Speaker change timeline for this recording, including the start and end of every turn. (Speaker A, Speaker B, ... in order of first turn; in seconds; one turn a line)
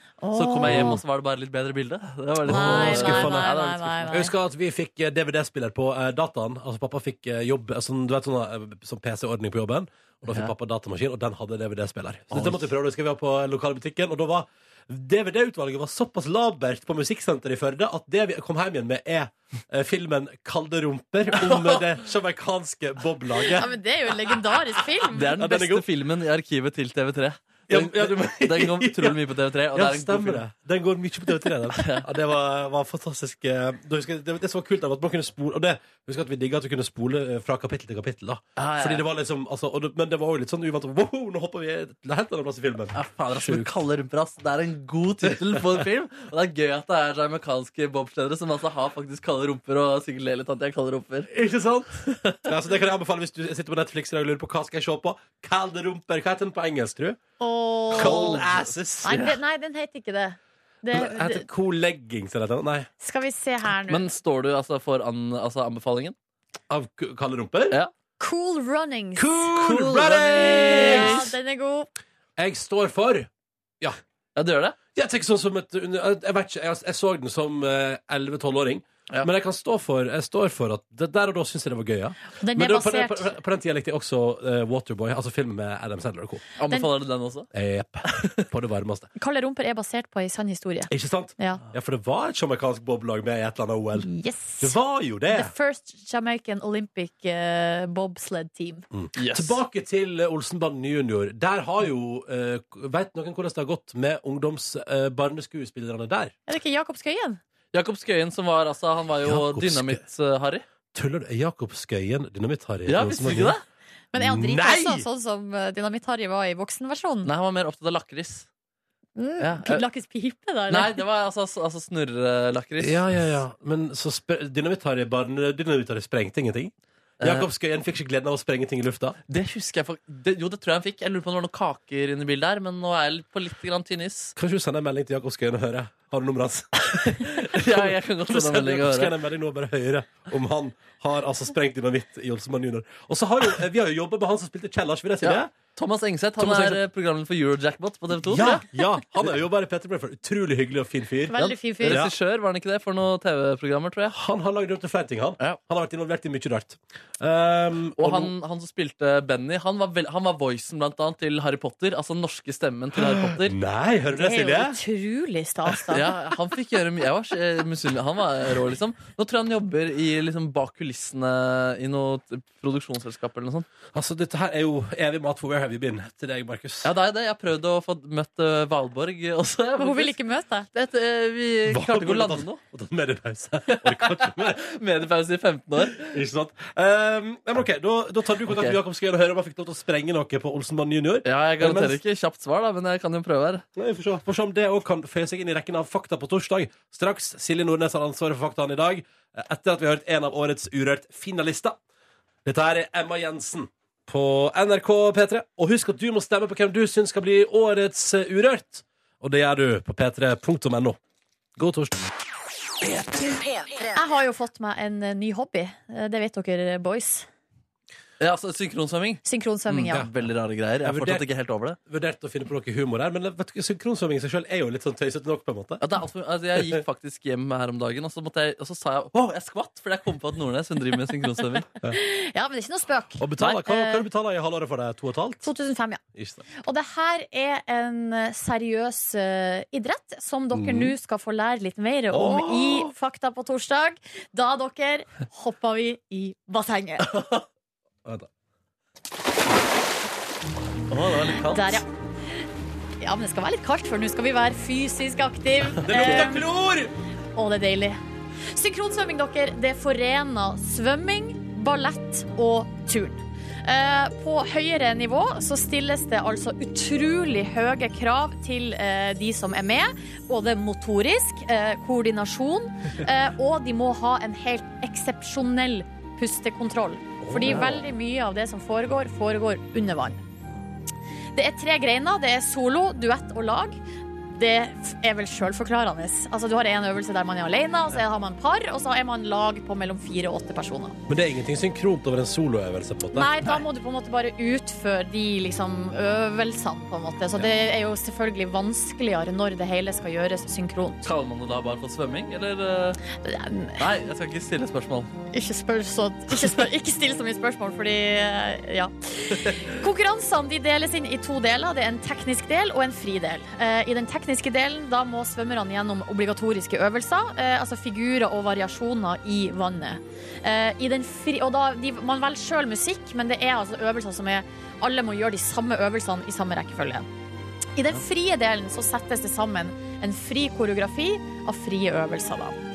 Speaker A: 0.2-1.0
Speaker B: 0.3-4.2
Speaker C: 0.7-1.0
Speaker C: 2.4-23.7
Speaker A: 2.5-4.3
Speaker B: 12.3-12.7
Speaker A: 23.4-25.3
Speaker B: 25.1-30.4
Speaker C: 25.4-25.9
Speaker C: 27.7-43.7
Speaker B: 31.7-32.1
Speaker B: 38.6-39.0
Speaker B: 43.0-51.3
Speaker C: 45.2-45.6
Speaker C: 51.3-57.2
Speaker B: 52.1-52.5
Speaker A: 57.4-58.4
Speaker C: 57.9-59.3
Speaker B: 58.0-59.4
Speaker A: 59.0-61.5
Speaker C: 60.9-62.9
Speaker A: 63.0-64.0
Speaker B: 63.9-66.2
Speaker C: 66.7-67.8
Speaker A: 68.2-69.5
Speaker C: 69.2-71.3
Speaker B: 69.5-71.3
Speaker A: 70.4-71.9
Speaker C: 72.4-73.3
Speaker B: 74.4-74.8
Speaker C: 75.0-86.4
Speaker A: 82.4-83.3
Speaker B: 86.6-87.5
Speaker C: 87.5-89.1
Speaker B: 88.0-88.5
Speaker A: 89.2-91.6
Speaker C: 90.9-95.5
Speaker A: 94.0-94.8
Speaker A: 95.3-98.9
Speaker C: 98.9-106.3
Speaker B: 99.2-99.6
Speaker A: 106.5-107.4
Speaker B: 107.7-110.7
Speaker C: 109.2-110.0
Speaker C: 110.9-113.6
Speaker B: 112.9-113.6
Speaker A: 114.1-117.3
Speaker C: 114.2-115.1
Speaker B: 117.2-118.5
Speaker A: 119.2-121.0
Speaker B: 119.4-119.8
Speaker B: 120.7-123.1
Speaker C: 122.8-129.2
Speaker B: 127.2-127.5
Speaker B: 129.3-134.3
Speaker C: 134.4-145.5
Speaker B: 137.1-139.1
Speaker B: 145.2-148.7
Speaker C: 146.4-146.8
Speaker C: 148.2-152.1
Speaker A: 151.3-152.0
Speaker B: 151.4-154.2
Speaker C: 154.1-158.3
Speaker B: 158.0-163.6
Speaker C: 163.0-164.8
Speaker A: 164.1-166.1
Speaker B: 165.9-173.7
Speaker C: 173.9-176.9
Speaker B: 176.8-180.2
Speaker A: 179.8-180.7
Speaker B: 180.7-182.6
Speaker C: 181.7-184.7
Speaker B: 183.7-186.2
Speaker C: 185.9-192.0
Speaker B: 188.5-188.8
Speaker B: 191.2-193.7
Speaker C: 193.8-201.8
Speaker C: 202.4-211.0
Speaker C: 211.6-212.0
Speaker A: 213.9-217.3
Speaker B: 218.2-221.8
Speaker A: 219.2-220.1
Speaker C: 220.8-221.3
Speaker C: 221.9-225.8
Speaker B: 225.8-231.7
Speaker A: 231.9-234.1
Speaker C: 233.2-235.5
Speaker A: 235.4-236.0
Speaker C: 236.2-236.4
Speaker A: 236.6-247.1
Speaker C: 240.5-240.9
Speaker C: 242.1-242.9
Speaker B: 247.1-247.4
Speaker B: 250.9-251.8
Speaker A: 251.5-251.9
Speaker A: 253.0-256.5
Speaker C: 255.8-256.9
Speaker A: 257.4-280.2
Speaker C: 277.2-277.8
Speaker B: 277.5-277.8
Speaker A: 281.4-283.8
Speaker A: 284.3-291.0
Speaker C: 291.1-293.6
Speaker A: 293.1-301.1
Speaker B: 301.0-303.0
Speaker A: 303.2-303.8
Speaker B: 303.8-305.1
Speaker A: 305.3-327.1
Speaker A: 327.8-332.6